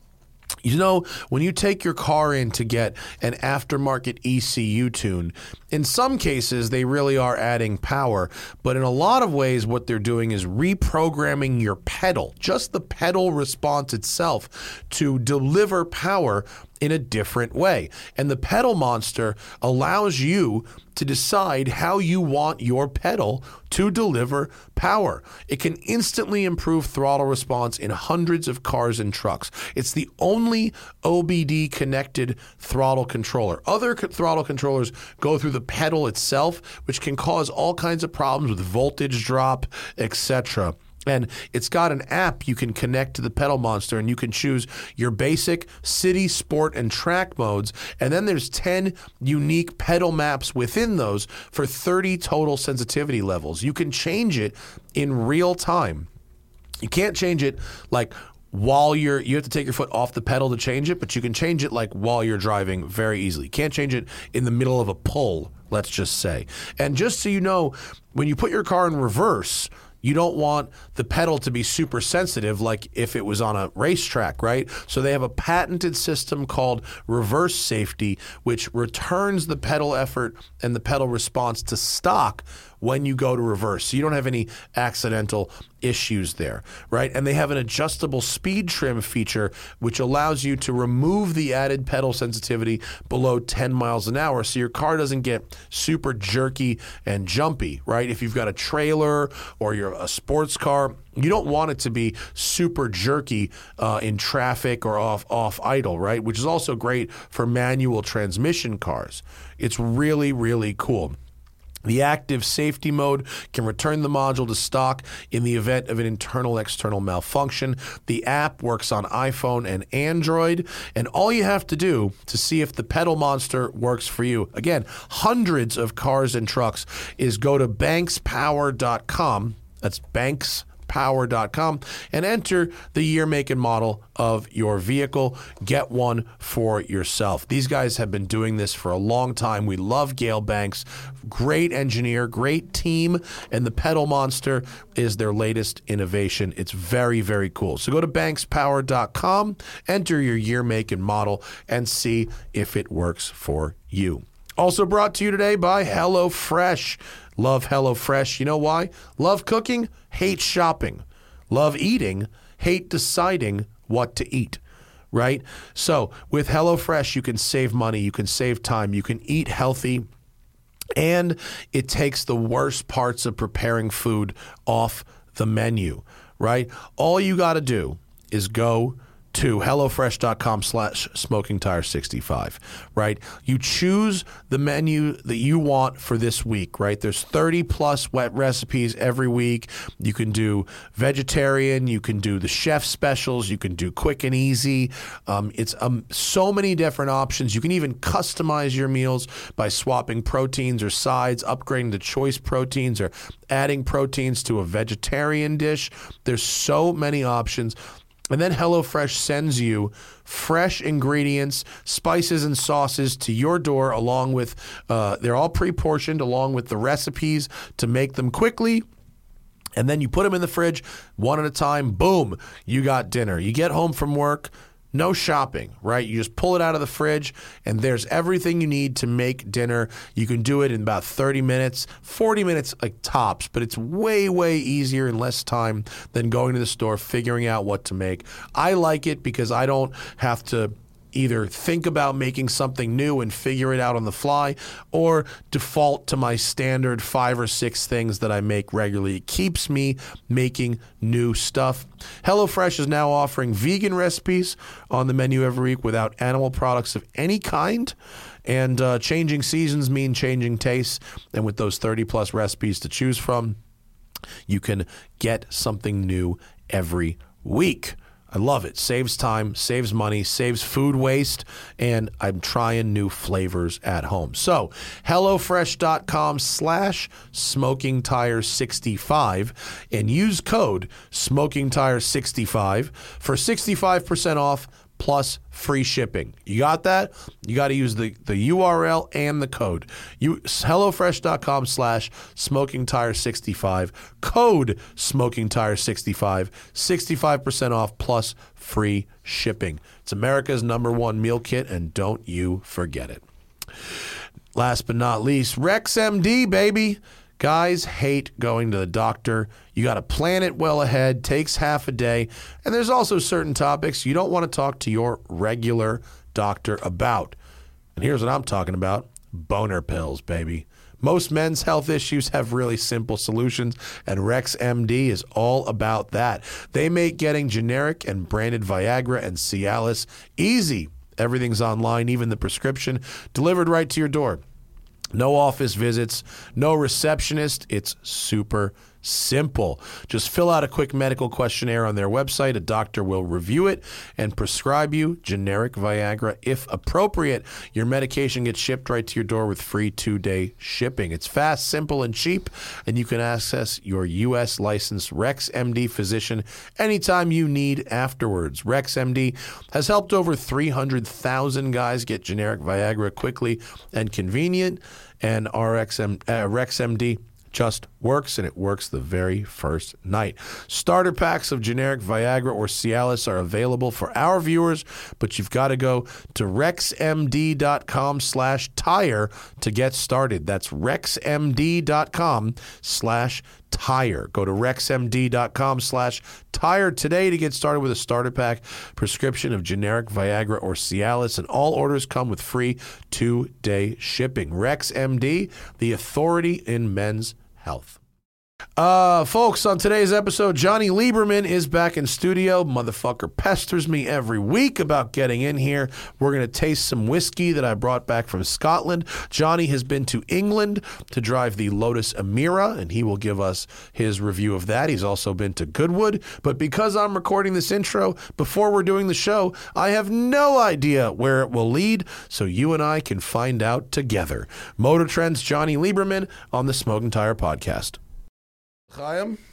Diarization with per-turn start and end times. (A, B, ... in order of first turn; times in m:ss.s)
0:00.6-0:56.1 A
0:56.8-1:51.2 A
1:51.8-2:44.6 A
2:45.1-2:50.1 A
2:51.0-3:27.8 A
3:28.3-3:38.8 A
3:39.8-4:17.9 A
4:18.4-4:23.6 A
4:24.5-5:03.2 A
5:04.5-5:17.4 A
5:18.0-5:34.4 A
5:35.1-6:38.0 A
6:38.8-7:08.0 A
7:08.9-7:09.4 A